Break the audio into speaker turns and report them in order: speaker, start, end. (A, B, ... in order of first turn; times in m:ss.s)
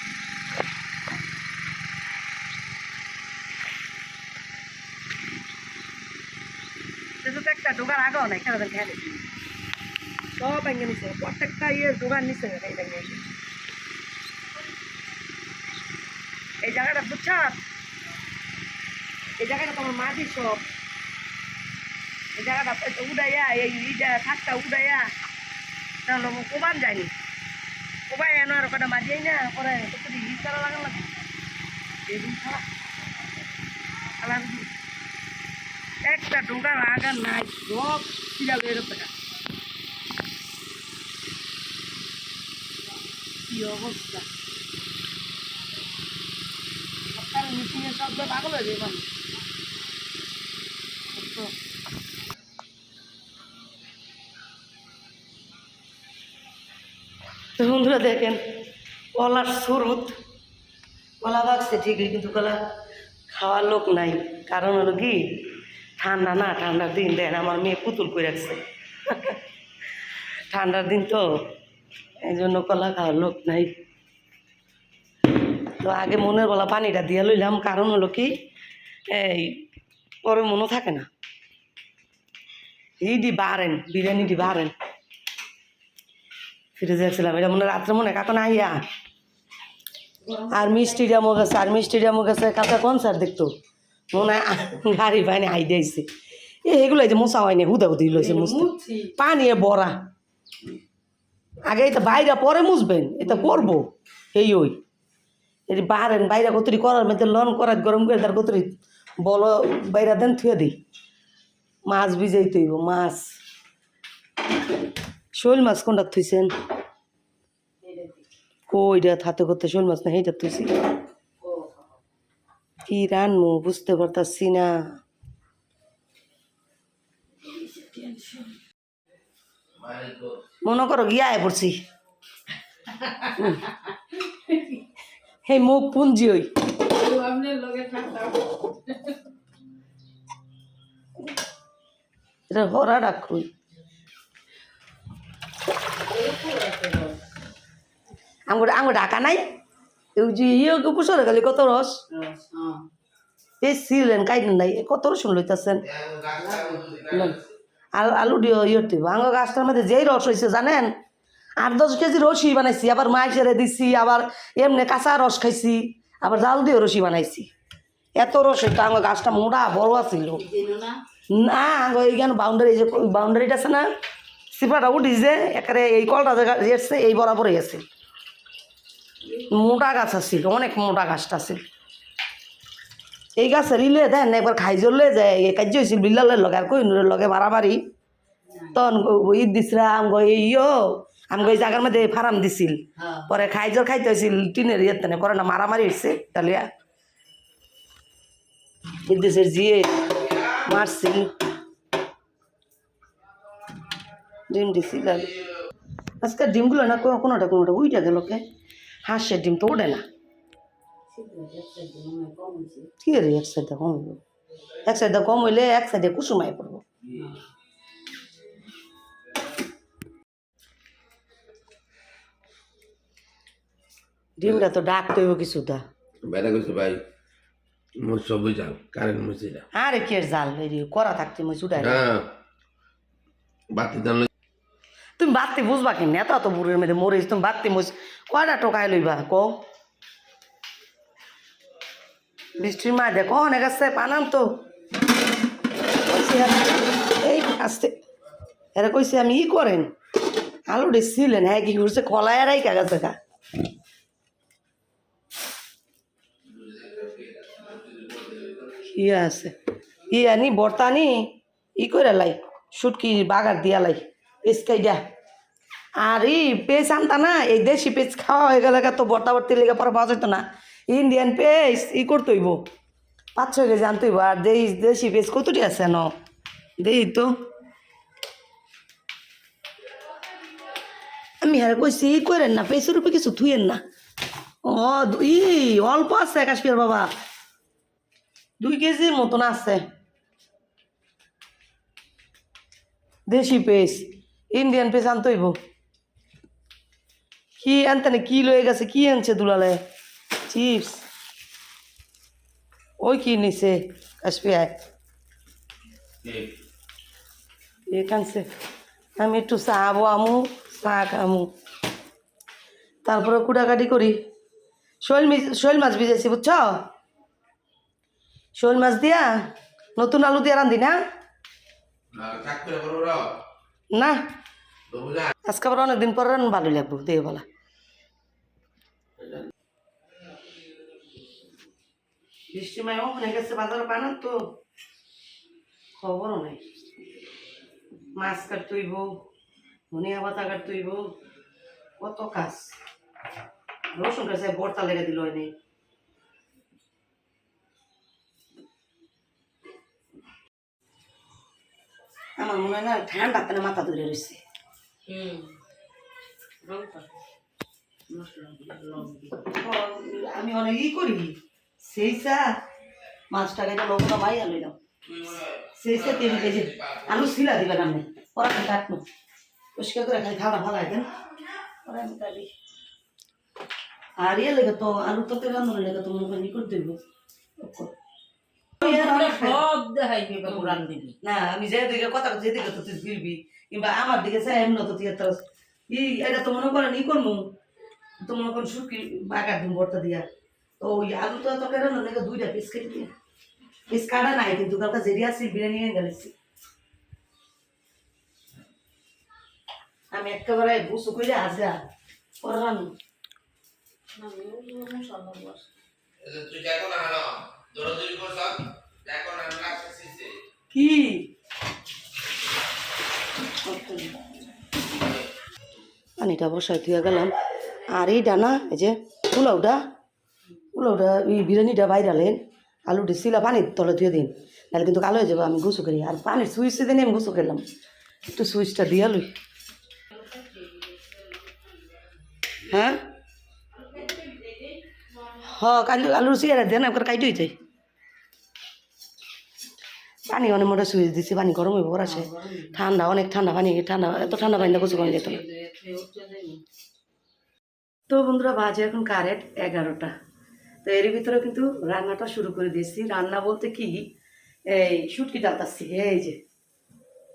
0:07.2-0:09.2 A
0:10.4-0:13.3 A
0:16.6-0:17.6 A
0:19.4-0:20.7 A
0:22.4-0:25.1 A
0:26.1-0:27.1 A
0:28.1-0:31.1 A
0:32.1-0:32.6 A
0:34.2-0:34.7 A
0:36.1-0:39.1 A
0:43.5-0:44.3 A
0:47.1-0:49.1 A
0:51.1-0:51.5 A
0:57.6-0:58.4 A
0:59.2-1:00.2 A
1:01.2-1:02.6 A
1:03.3-1:09.4 A
1:10.5-1:11.3 A
1:12.2-1:13.7 A
1:15.8-1:18.4 A
1:19.1-1:19.6 A
1:20.2-1:21.1 A
1:23.0-1:24.7 A
1:26.8-1:28.8 A
1:30.2-1:31.2 B
1:30.5-1:33.5 A
1:34.1-1:36.1 A
1:36.6-1:40.0 A
1:38.2-1:39.1 B
1:41.7-1:44.8 A
1:45.7-1:50.8 A
1:51.9-1:53.3 A
1:55.4-1:56.5 A
1:57.8-1:58.2 B
1:58.7-2:00.8 A
2:01.4-2:01.8 B
2:02.8-2:05.0 A
2:07.6-2:08.5 B
2:09.8-2:10.4 C
2:10.6-2:11.8 A
2:13.0-2:13.7 B
2:15.4-2:16.5 A
2:16.8-2:19.2 B
2:22.5-2:23.5 A
2:26.0-2:27.2 B
2:28.5-2:29.4 A
2:30.2-2:32.0 A
2:32.1-2:32.9 B
2:33.6-2:35.9 A
2:36.0-2:37.3 C
2:36.4-2:36.8 B
2:37.0-2:37.4 A
2:37.9-2:41.0 A
2:41.6-2:47.5 A
2:48.2-2:50.4 A
2:50.4-2:51.0 B
2:51.3-2:53.9 A
2:54.5-2:57.8 A
2:59.5-3:01.6 A
3:03.4-3:07.8 A
3:08.7-3:16.7 A
3:13.0-3:13.3 B
3:19.1-3:21.3 A
3:24.5-3:25.4 A
3:26.2-3:28.4 A
3:29.0-3:30.0 A
3:31.1-3:32.9 B
3:33.0-3:34.2 A
3:34.8-3:36.8 A
3:44.4-3:45.8 A
3:46.2-3:47.0 C
3:48.0-3:49.7 C
3:49.7-3:52.0 A
3:51.8-3:52.3 C
3:53.7-3:54.3 C
3:55.2-3:59.6 A
4:02.6-4:04.4 A
4:06.0-4:08.0 A
4:08.8-4:09.9 A
4:10.7-4:13.2 A
4:16.5-4:18.6 C
4:18.8-4:19.6 A
4:20.1-4:25.0 A
4:26.0-4:32.6 A
4:33.4-4:36.1 A
4:36.8-4:37.3 A
4:41.4-4:43.8 A
4:44.6-4:47.1 A
4:48.6-4:49.8 A
4:53.3-4:55.6 A
4:57.6-4:59.8 A
5:00.5-5:01.0 A
5:03.0-5:04.7 A
5:06.2-5:06.5 C
5:07.9-5:08.5 A
5:09.2-5:11.5 A
5:13.0-5:14.2 A
5:15.0-5:16.8 A
5:18.6-5:19.4 A
5:20.0-5:21.0 A
5:22.1-5:23.3 C
5:24.9-5:25.3 C
5:25.4-5:27.4 A
5:32.5-5:34.4 A
5:36.0-5:36.6 A
5:38.2-5:39.2 A
5:39.9-5:41.1 A
5:42.0-5:42.8 A
5:43.9-5:45.5 A
5:52.4-5:54.4 A
5:55.1-5:55.5 B
5:56.6-5:57.1 B
5:58.1-5:59.5 B
5:59.5-6:02.6 A
6:03.3-6:04.8 A
6:05.2-6:06.9 C
6:05.8-6:09.0 A
6:09.8-6:11.1 A
6:11.8-6:12.5 A
6:14.2-6:17.0 A
6:17.6-6:17.9 A
6:18.8-6:19.6 A
6:18.8-6:21.2 B
6:20.5-6:27.4 A
6:28.2-6:30.3 A
6:30.8-6:33.1 A
6:33.9-6:36.3 A
6:40.1-6:41.8 A
6:42.4-6:42.9 A
6:44.2-6:45.7 B
6:46.2-6:50.4 C
6:50.7-6:51.3 A
6:53.6-6:54.2 A
6:56.2-6:57.4 A
6:57.9-6:59.8 A
7:00.7-7:07.6 A
7:08.3-7:09.3 A
7:10.1-7:11.4 B
7:12.6-7:13.0 A
7:13.9-7:14.8 B
7:15.4-7:17.5 A
7:20.3-7:25.4 A
7:22.0-7:22.8 B
7:24.2-7:26.6 B
7:28.1-7:30.1 A
7:30.8-7:34.1 A
7:34.7-7:36.4 A